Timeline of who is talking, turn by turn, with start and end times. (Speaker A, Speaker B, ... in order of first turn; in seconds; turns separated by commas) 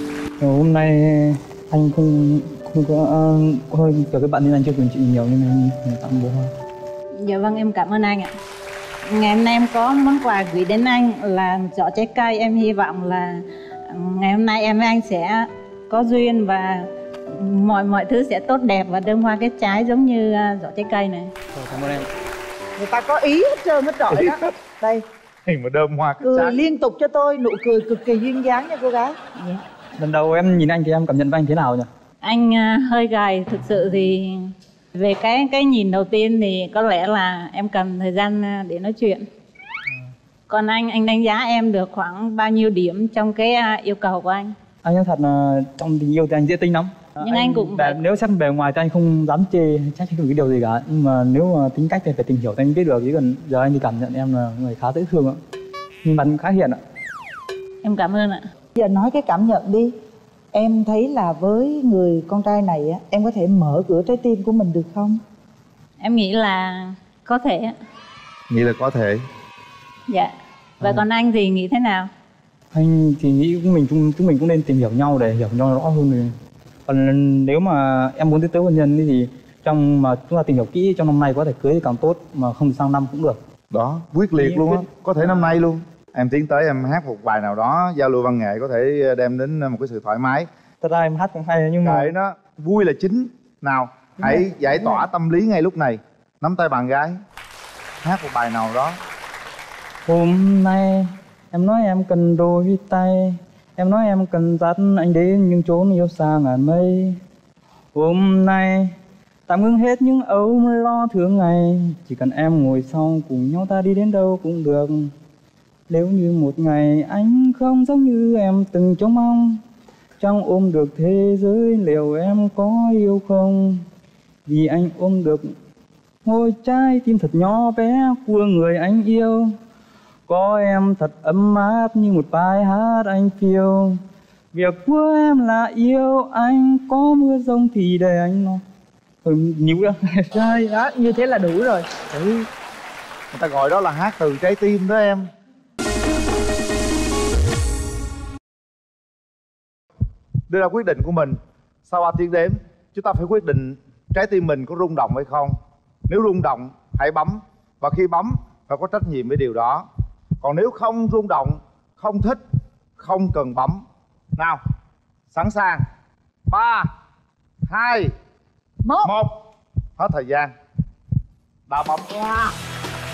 Speaker A: 0.4-6.5, Speaker B: 7.2-8.3, Speaker B: 9.1-21.3, Speaker A: 21.5-22.1, Speaker C: 22.8-25.0, Speaker D: 24.1-24.4, Speaker D: 25.4-26.6, Speaker C: 26.2-29.1, Speaker B: 29.4-29.6, Speaker A: 30.0-31.9, Speaker B: 32.2-39.2, Speaker B: 40.5-44.5, Speaker A: 44.8-55.4, Speaker B: 47.2-48.0, Speaker A: 56.0-56.8, Speaker B: 57.8-58.4, Speaker C: 58.8-59.9, Speaker C: 60.5-65.2, Speaker B: 66.0-67.7, Speaker D: 68.5-69.2, Speaker B: 70.1-72.1, Speaker A: 72.7-76.3, Speaker A: 76.9-83.4, Speaker D: 83.7-90.5, Speaker A: 84.3-85.6, Speaker A: 90.8-92.1, Speaker D: 91.8-97.2, Speaker A: 94.2-95.0, Speaker D: 98.0-99.0, Speaker A: 100.0-107.2, Speaker A: 107.9-108.9, Speaker A: 109.5-115.1, Speaker A: 115.9-119.6, Speaker A: 120.2-123.8, Speaker A: 124.4-125.4, Speaker A: 126.2-129.6, Speaker A: 130.3-134.0, Speaker A: 134.5-138.6, Speaker A: 139.2-140.3, Speaker C: 140.3-142.2, Speaker D: 143.3-145.2, Speaker D: 150.5-155.5, Speaker D: 156.1-159.8, Speaker D: 160.4-162.4, Speaker D: 163.0-163.8, Speaker D: 165.3-165.8, Speaker D: 166.5-166.9, Speaker D: 167.7-168.1, Speaker C: 168.8-169.1, Speaker D: 169.0-169.3, Speaker D: 170.0-170.5, Speaker D: 171.7-172.5